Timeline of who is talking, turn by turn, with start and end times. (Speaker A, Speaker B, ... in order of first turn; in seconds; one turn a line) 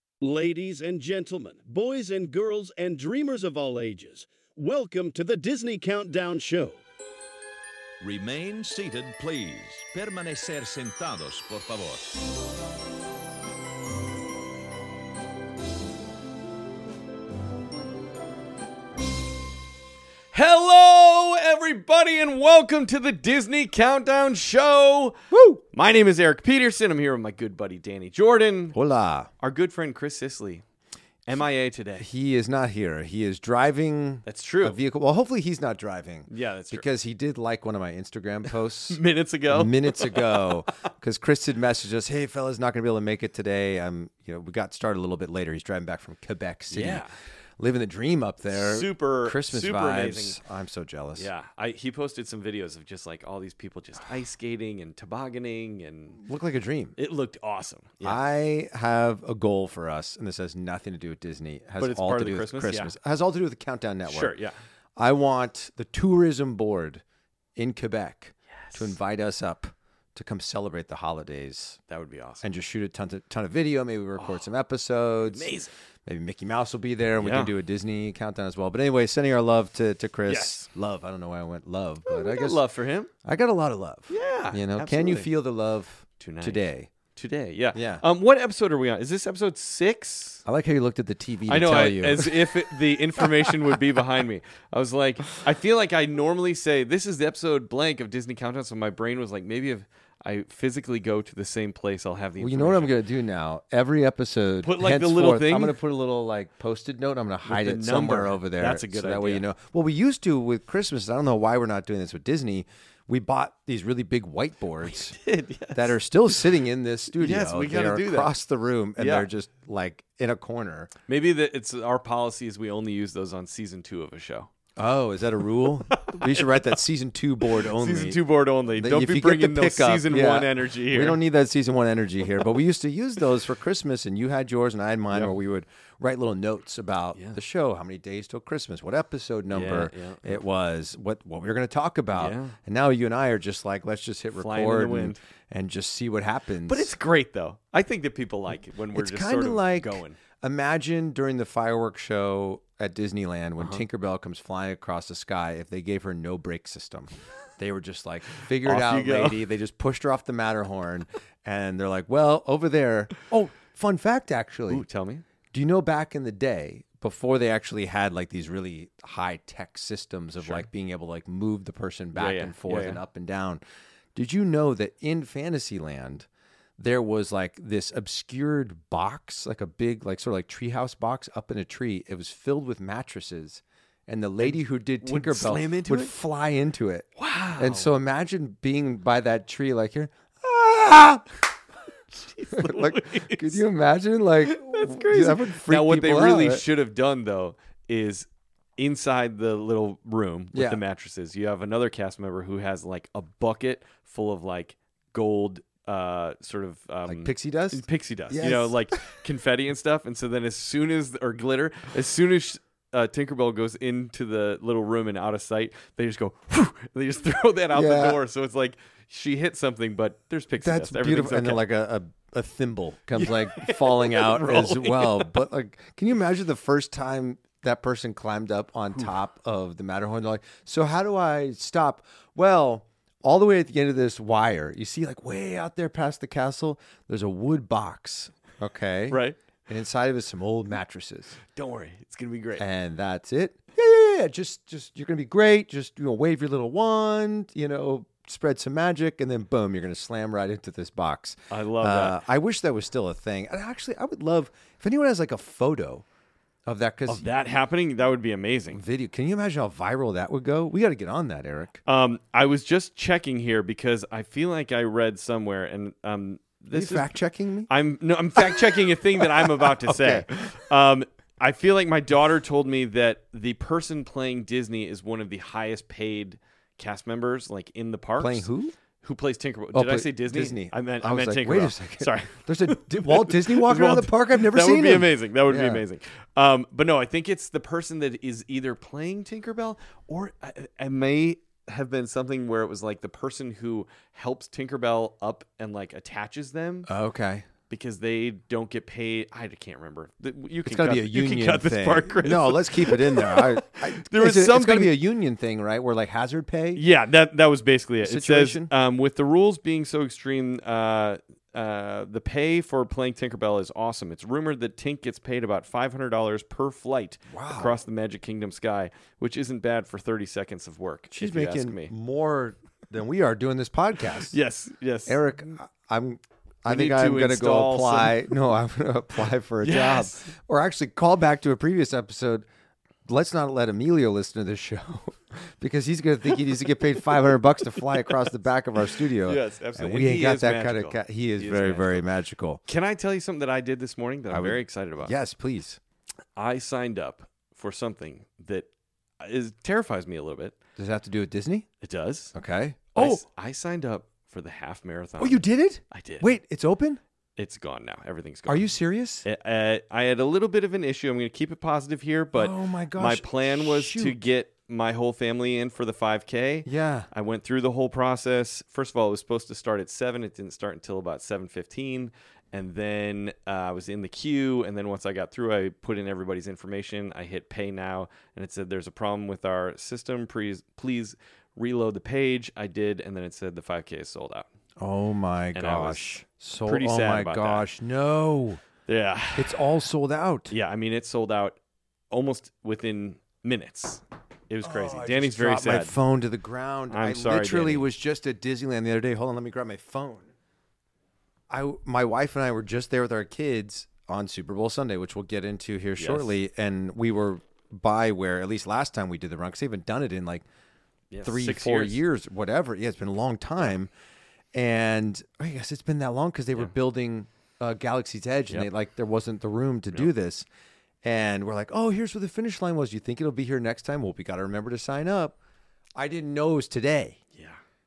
Speaker A: 0.2-6.8
Speaker B: 8.0-12.1
Speaker C: 20.3-28.8
Speaker D: 25.3-25.6
Speaker D: 28.8-29.3
Speaker C: 29.4-30.6
Speaker C: 31.3-32.1
Speaker D: 32.0-47.0
Speaker C: 34.3-34.8
Speaker C: 36.3-36.9
Speaker C: 38.9-40.6
Speaker C: 46.7-47.1
Speaker D: 47.6-51.3
Speaker C: 48.5-50.4
Speaker C: 51.2-56.2
Speaker D: 56.2-57.0
Speaker C: 57.0-58.2
Speaker D: 58.0-64.3
Speaker C: 61.8-62.9
Speaker C: 64.1-64.6
Speaker D: 65.0-67.0
Speaker D: 67.6-71.8
Speaker C: 71.9-72.4
Speaker D: 72.4-75.5
Speaker C: 74.2-74.4
Speaker C: 75.3-75.7
Speaker D: 76.0-82.6
Speaker C: 77.2-77.5
Speaker C: 80.3-80.7
Speaker C: 82.1-83.1
Speaker D: 83.2-86.9
Speaker C: 84.1-85.3
Speaker C: 86.2-90.4
Speaker D: 87.7-88.0
Speaker D: 90.5-92.4
Speaker C: 91.5-103.0
Speaker D: 102.4-115.2
Speaker C: 104.6-105.8
Speaker C: 107.5-109.5
Speaker C: 114.8-116.0
Speaker D: 115.7-120.9
Speaker C: 117.1-118.3
Speaker C: 119.0-119.3
Speaker C: 121.1-124.5
Speaker D: 124.8-128.2
Speaker C: 126.0-126.7
Speaker C: 127.5-131.2
Speaker D: 128.8-146.9
Speaker C: 139.5-140.4
Speaker C: 142.2-142.6
Speaker C: 144.4-145.2
Speaker C: 146.7-150.2
Speaker D: 148.9-164.8
Speaker C: 153.6-153.8
Speaker C: 158.6-159.4
Speaker C: 164.7-165.2
Speaker D: 165.5-173.6
Speaker C: 170.4-170.7
Speaker C: 172.1-173.0
Speaker D: 174.2-176.3
Speaker D: 176.8-191.3
Speaker C: 184.4-186.2
Speaker C: 187.2-187.9
Speaker C: 192.1-193.6
Speaker D: 192.5-196.6
Speaker C: 194.4-221.6
Speaker D: 200.5-200.8
Speaker D: 207.1-208.7
Speaker D: 217.7-218.2
Speaker D: 220.6-241.4
Speaker C: 223.1-225.3
Speaker C: 239.1-239.4
Speaker C: 241.5-242.7
Speaker D: 242.6-256.0
Speaker C: 251.5-252.2
Speaker D: 256.7-257.3
Speaker C: 257.1-258.8
Speaker D: 258.7-261.8
Speaker C: 261.9-267.1
Speaker D: 266.7-267.7
Speaker C: 267.7-278.5
Speaker D: 268.4-270.3
Speaker D: 278.2-278.8
Speaker C: 279.0-296.9
Speaker D: 279.7-285.8
Speaker D: 296.9-297.5
Speaker C: 297.7-304.9
Speaker D: 300.6-306.8
Speaker C: 306.8-321.9
Speaker D: 308.0-308.7
Speaker D: 317.3-317.7
Speaker D: 321.1-324.4
Speaker C: 324.1-325.2
Speaker D: 325.1-332.4
Speaker C: 326.7-328.4
Speaker C: 329.6-330.3
Speaker D: 333.1-342.6
Speaker C: 336.8-338.3
Speaker C: 338.9-342.1
Speaker C: 342.7-345.1
Speaker D: 344.3-345.8
Speaker C: 346.4-348.7
Speaker C: 349.2-350.6
Speaker D: 350.8-351.7
Speaker C: 351.8-352.3
Speaker D: 352.3-353.2
Speaker C: 352.9-356.3
Speaker D: 355.2-357.0
Speaker C: 357.4-358.7
Speaker D: 358.5-359.3
Speaker C: 359.2-384.5
Speaker D: 362.4-364.2
Speaker D: 366.7-367.1
Speaker D: 384.8-388.6
Speaker C: 385.5-387.7
Speaker C: 388.9-389.6
Speaker D: 389.4-390.5
Speaker C: 390.5-391.6
Speaker C: 392.1-396.0
Speaker D: 394.6-400.3
Speaker C: 396.9-397.9
Speaker D: 401.5-410.4
Speaker C: 406.0-406.3
Speaker C: 411.1-412.0
Speaker D: 411.2-413.9
Speaker D: 414.5-420.5
Speaker D: 421.0-425.4
Speaker D: 426.0-427.2
Speaker C: 427.3-427.6